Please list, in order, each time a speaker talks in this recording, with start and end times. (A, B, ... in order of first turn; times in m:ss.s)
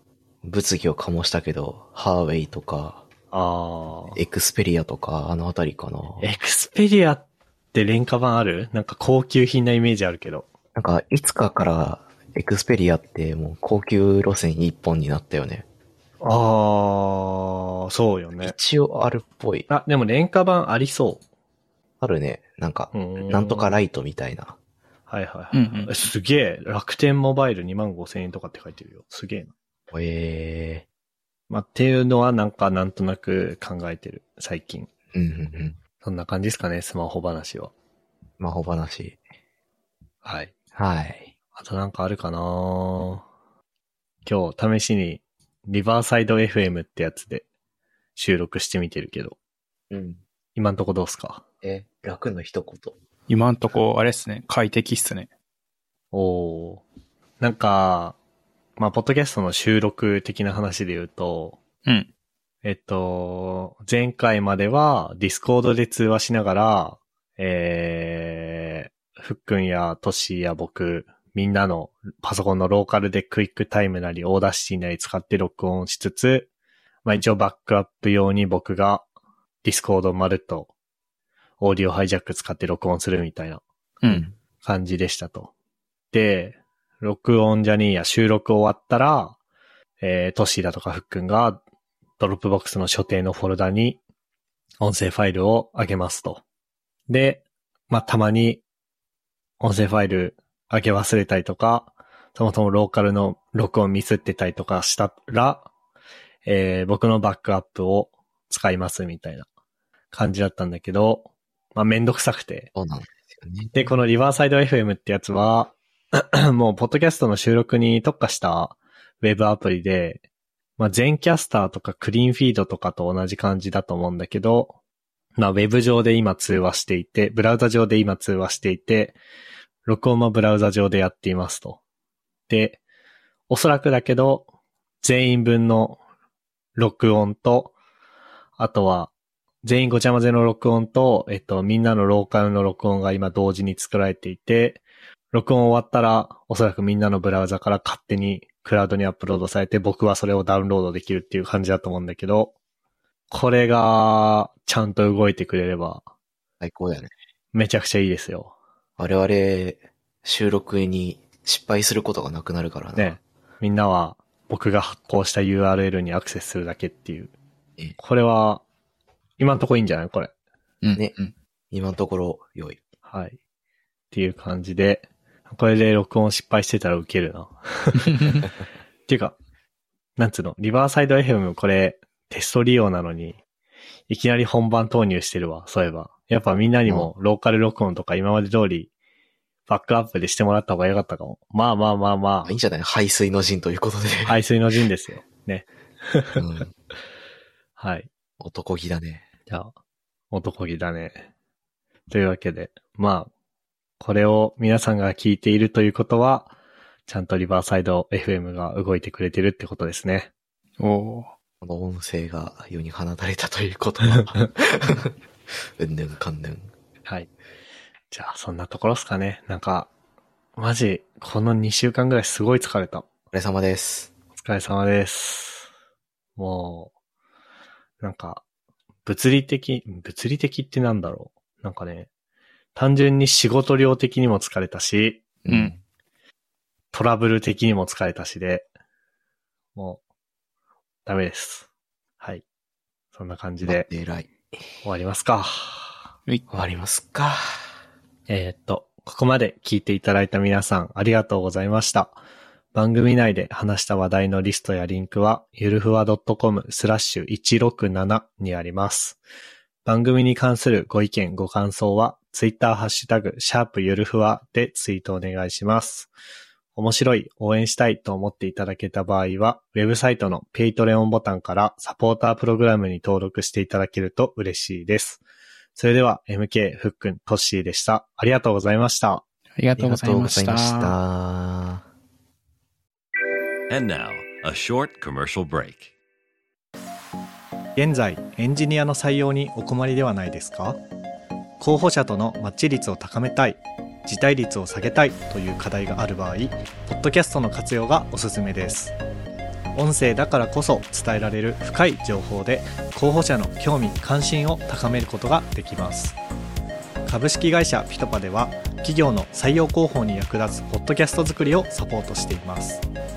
0:00.4-0:03.0 A
0:03.3-0:04.2 B
0:04.1-0:06.3 A
0:06.2-0:10.5 B
0:10.7-0:15.6 A
0:16.2-0:18.5 B
0:18.4-0:19.7 A
0:19.7-0:21.2 B
0:22.0-0:24.6 A
0:22.9-0:23.8 B
0:25.1-0:29.5 B
0:25.5-0:25.9 C
0:29.9-0:30.8 A
0:31.5-0:34.9 B
0:35.1-0:35.8 A
0:36.0-0:37.7 B
0:38.4-0:39.2 A
0:40.2-0:40.5 B
0:40.7-0:41.3 A
0:41.5-0:43.2 B
0:44.2-0:47.4 B
0:48.2-0:49.4 B
0:49.9-0:50.2 A
0:50.6-0:51.4 B
0:51.6-0:52.9 A
0:53.3-0:55.3 C
0:56.1-0:56.8 B
0:57.4-0:58.2 B
0:58.8-1:01.6 B
1:02.6-1:16.5 B
1:17.0-1:19.0 B
1:19.6-1:20.7 B
1:21.6-1:23.6 B
1:24.0-1:24.3 A
1:24.6-1:25.5 B
1:26.1-1:29.4 B
1:30.0-1:31.6 B
1:32.2-1:34.0 B
1:34.8-1:36.4 B
1:37.1-1:38.6 B
1:39.6-1:45.6 B
1:46.4-1:49.5 B
1:50.1-1:52.7 B
1:52.7-1:53.8 A
1:53.7-2:00.2 B
2:00.8-2:04.7 B
2:05.4-2:09.2 B
2:09.8-2:11.8 B
2:12.5-2:12.8 B
2:13.5-2:14.5 B
2:15.0-2:16.0 B
2:16.8-2:17.7 B
2:18.6-2:19.1 B
2:19.6-2:32.5 B
2:33.3-2:36.0 B
2:36.6-2:37.1 A
2:37.5-2:38.5 B
2:39.0-2:43.1 A
2:43.0-2:47.3 B
2:48.0-2:48.6 B
2:49.4-2:50.3 B
2:50.8-2:51.3 C
2:51.7-2:52.8 A
2:53.0-2:53.4 B
2:54.1-2:58.3 B
2:59.1-2:59.4 B
3:00.2-3:03.4 B
3:04.1-3:08.9 B
3:06.8-3:07.1 A
3:09.7-3:12.5 B
3:12.4-3:14.4 A
3:14.2-3:16.4 B
3:16.4-3:16.7 A
3:17.8-3:18.1 B
3:18.4-3:19.2 A
3:20.3-3:21.3 B
3:22.1-3:23.3 B
3:24.0-3:26.5 B
3:27.1-3:30.3 B
3:30.8-3:31.3 C
3:31.6-3:35.1 A
3:35.7-3:36.7 A
3:38.1-3:39.9 B
3:40.6-3:43.1 B
3:43.3-3:44.1 A
3:44.4-3:45.7 B
3:46.4-3:46.9 B
3:48.0-3:48.4 B
3:49.0-3:52.1 B
3:52.7-3:55.2 B
3:55.4-3:55.8 A
3:55.5-3:55.7 C
3:56.9-3:58.6 B
3:59.7-4:00.0 B
4:01.0-4:01.7 B
4:03.1-4:03.9 B
4:03.6-4:04.3 A
4:04.8-4:06.0 B
4:06.5-4:07.4 A
4:08.3-4:12.2 B
4:12.7-4:19.2 B
4:19.8-4:26.1 B
4:26.7-4:35.2 B
4:35.7-4:39.2 B
4:39.6-4:40.9 C
4:39.8-4:41.8 A
4:43.7-4:45.9 D
4:47.8-4:50.8 B
4:51.6-4:58.9 B
4:59.7-5:06.2 B
5:07.0-5:12.8 B